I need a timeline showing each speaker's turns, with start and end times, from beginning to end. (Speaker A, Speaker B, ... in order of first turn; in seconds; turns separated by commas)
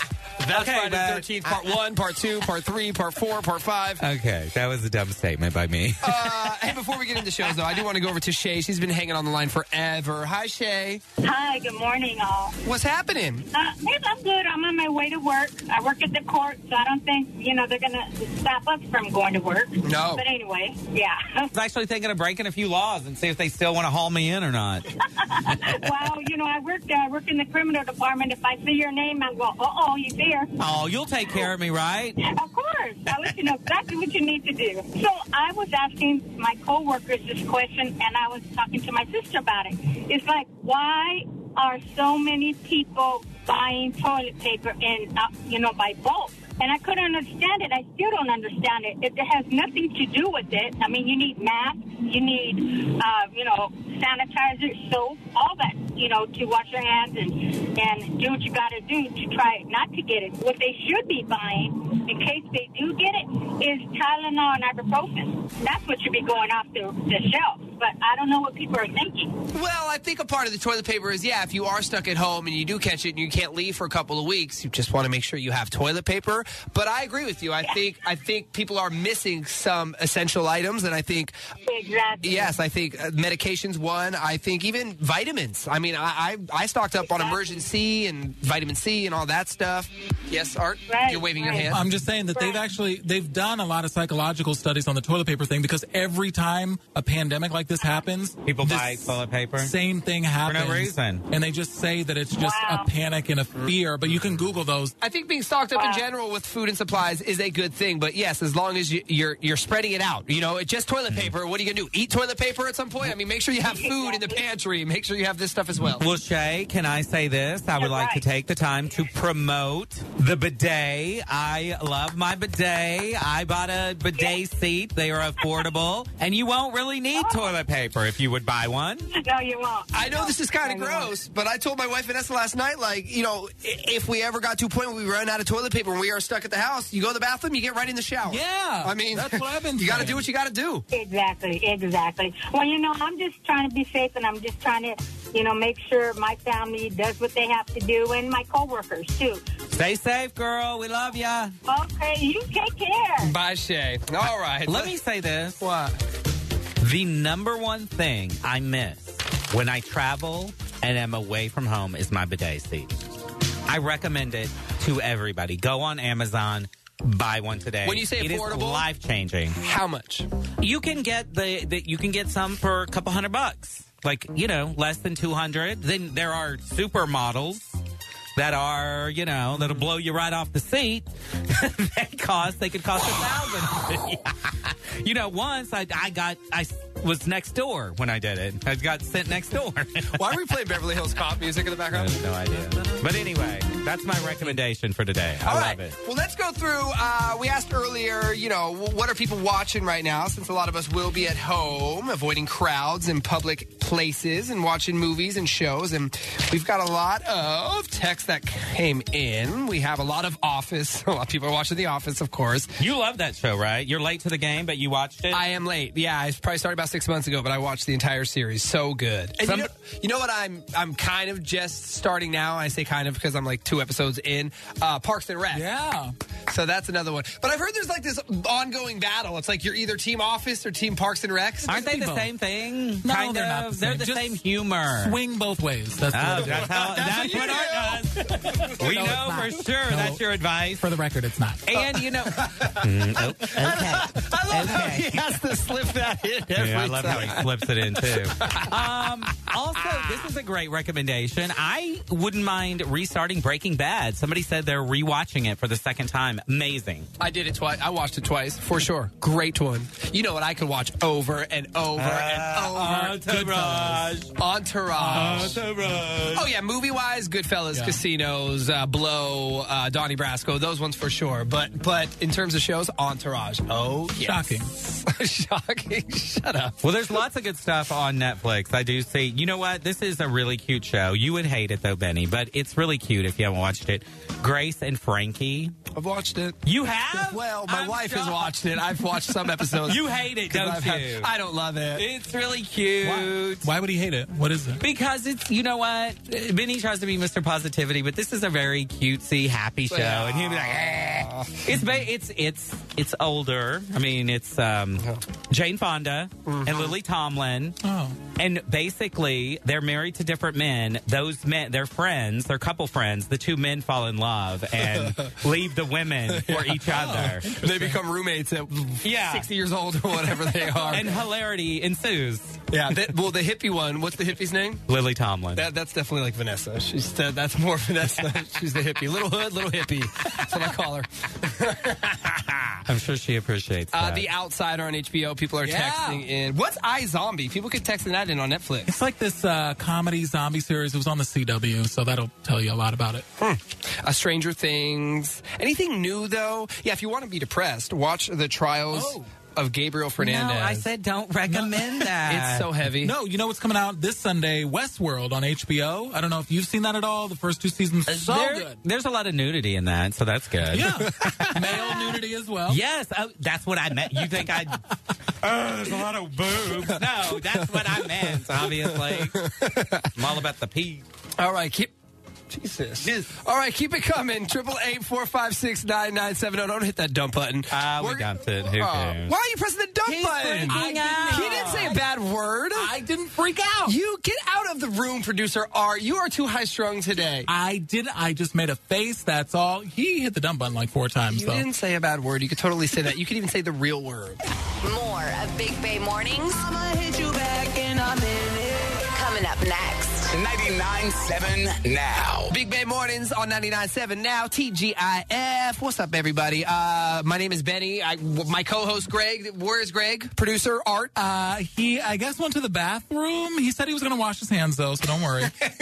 Speaker A: 0.4-4.0, Speaker B: 0.5-1.6, Speaker B: 4.0-6.5, Speaker A: 6.0-11.0, Speaker C: 11.2-12.6, Speaker A: 12.6-13.4, Speaker C: 13.5-21.5, Speaker A: 19.8-20.2, Speaker B: 21.5-24.9, Speaker C: 25.2-30.5, Speaker B: 30.6-32.2, Speaker C: 32.2-69.3, Speaker A: 69.5-81.3, Speaker C: 81.6-82.5, Speaker A: 82.2-91.8, Speaker C: 87.2-87.5, Speaker C: 90.9-91.8, Speaker D: 91.7-104.9, Speaker C: 92.3-92.6, Speaker B: 98.4-99.7, Speaker B: 100.4-101.2, Speaker C: 102.4-102.9, Speaker A: 105.0-116.0, Speaker C: 105.7-106.0, Speaker C: 113.6-114.4, Speaker B: 116.0-129.1, Speaker C: 117.8-118.2, Speaker C: 127.1-127.5, Speaker C: 129.1-131.1, Speaker A: 129.9-140.8, Speaker D: 138.2-140.2, Speaker C: 140.9-149.4, Speaker B: 149.7-151.5, Speaker C: 151.6-153.3, Speaker A: 153.2-154.9, Speaker B: 154.7-155.6, Speaker A: 155.6-156.0, Speaker B: 156.8-162.9, Speaker B: 163.7-169.6, Speaker A: 167.8-168.8, Speaker A: 169.6-170.3, Speaker B: 170.6-177.7, Speaker B: 178.3-190.4, Speaker A: 190.1-192.1, Speaker B: 191.9-195.9, Speaker A: 195.4-212.8, Speaker B: 212.8-215.4, Speaker A: 215.3-225.6, Speaker D: 225.5-226.1, Speaker A: 226.5-231.7, Speaker B: 231.7-235.2, Speaker D: 231.7-232.3, Speaker D: 233.0-234.4, Speaker D: 235.0-237.5, Speaker B: 236.1-240.8, Speaker A: 236.4-238.7, Speaker D: 238.7-240.2, Speaker D: 240.8-241.7, Speaker B: 241.7-245.3, Speaker A: 243.4-247.5, Speaker B: 246.5-257.1, Speaker A: 248.0-248.8, Speaker A: 257.2-263.2, Speaker B: 261.9-264.3, Speaker D: 263.1-264.2, Speaker A: 264.3-265.6, Speaker D: 265.0-266.2, Speaker B: 265.1-266.4, Speaker A: 266.3-276.9, Speaker D: 267.7-268.0, Speaker D: 274.2-274.7, Speaker B: 276.8-285.7, Speaker A: 285.9-286.6, Speaker B: 286.6-288.5, Speaker A: 287.1-292.0, Speaker B: 289.9-291.3, Speaker B: 291.9-293.7, Speaker D: 293.0-294.8, Speaker B: 294.8-307.8, Speaker A: 299.9-301.7, Speaker A: 306.4-306.9, Speaker D: 307.8-308.2, Speaker B: 308.3-317.5, Speaker A: 316.3-316.8, Speaker D: 316.9-318.0, Speaker A: 317.6-321.1, Speaker B: 319.0-319.5, Speaker B: 320.9-322.6, Speaker A: 322.7-324.8, Speaker B: 324.9-325.6, Speaker A: 325.5-332.8, Speaker B: 332.9-334.3, Speaker A: 333.9-338.9, Speaker D: 335.6-336.2, Speaker D: 338.9-343.2, Speaker A: 343.4-350.8, Speaker D: 348.9-349.2, Speaker B: 350.2-352.7, Speaker D: 351.5-352.1, Speaker A: 352.2-353.1, Speaker D: 353.0-358.8, Speaker B: 358.1-364.8, Speaker D: 360.7-362.8, Speaker B: 365.4-369.4, Speaker A: 368.9-370.1, Speaker B: 370.1-371.0, Speaker A: 371.4-371.9, Speaker A: 372.5-382.9, Speaker B: 373.0-373.3, Speaker B: 377.7-379.3, Speaker D: 380.0-382.0, Speaker B: 380.6-382.0, Speaker D: 382.7-383.9, Speaker A: 383.8-387.5, Speaker D: 387.5-391.6, Speaker A: 391.3-394.4, Speaker E: 394.8-396.6, Speaker E: 399.0-400.3, Speaker F: 400.3-402.5, Speaker A: 402.5-411.1, Speaker D: 411.1-415.5